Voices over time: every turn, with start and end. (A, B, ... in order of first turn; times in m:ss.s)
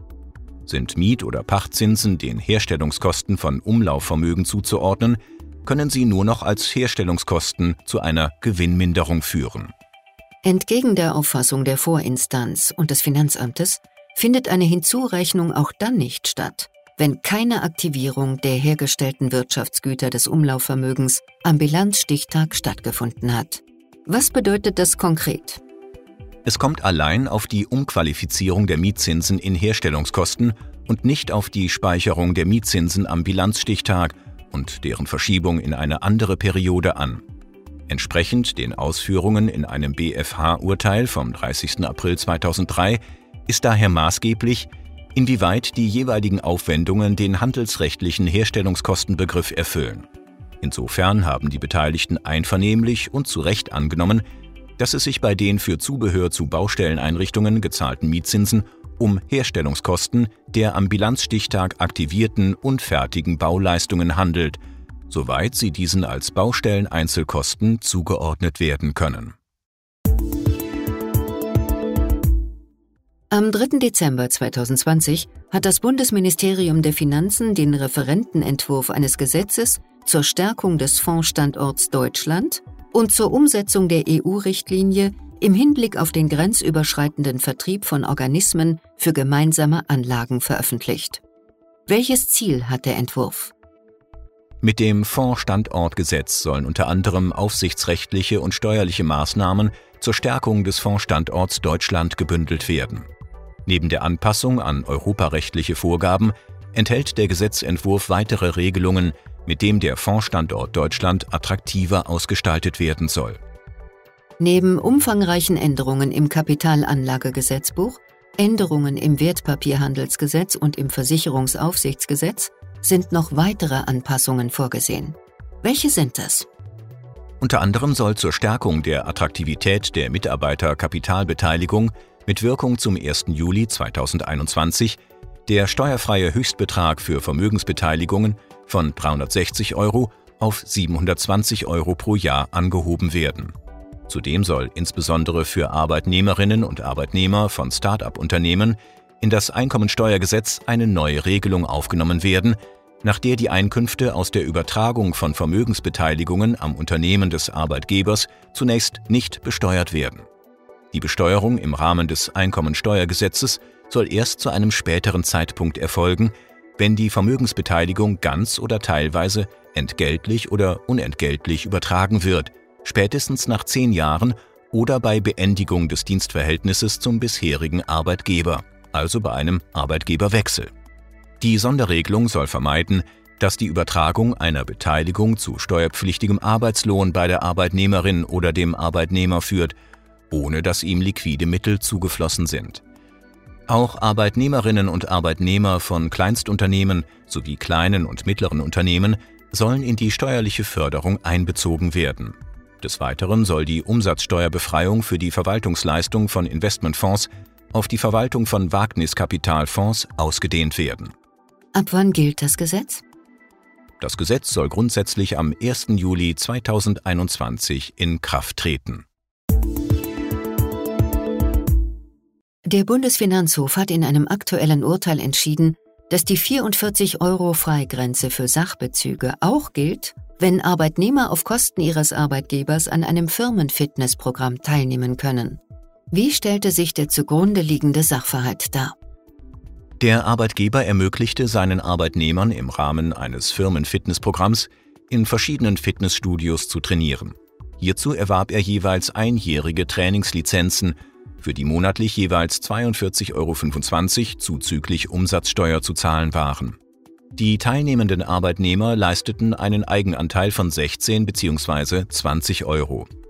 0:00.6-0:09.7 A
0:10.4-0:25.6 B
0:26.4-0:37.2 A
0:37.9-0:50.0 A
0:50.6-0:54.2 A
0:54.8-1:09.3 A
1:13.3-1:31.2 B
1:31.9-1:33.5 B
1:34.6-1:43.1 A
1:43.6-1:53.4 A
1:54.4-2:06.5 B
2:07.4-2:23.5 A
2:24.1-2:40.2 A
2:40.9-3:00.7 A
3:01.4-3:09.7 A
3:10.3-3:12.8 A
3:13.7-3:31.1 A
3:31.7-3:33.0 B
3:34.0-3:39.0 A
3:42.6-3:58.9 B
4:00.0-4:16.8 A
4:17.4-4:23.1 A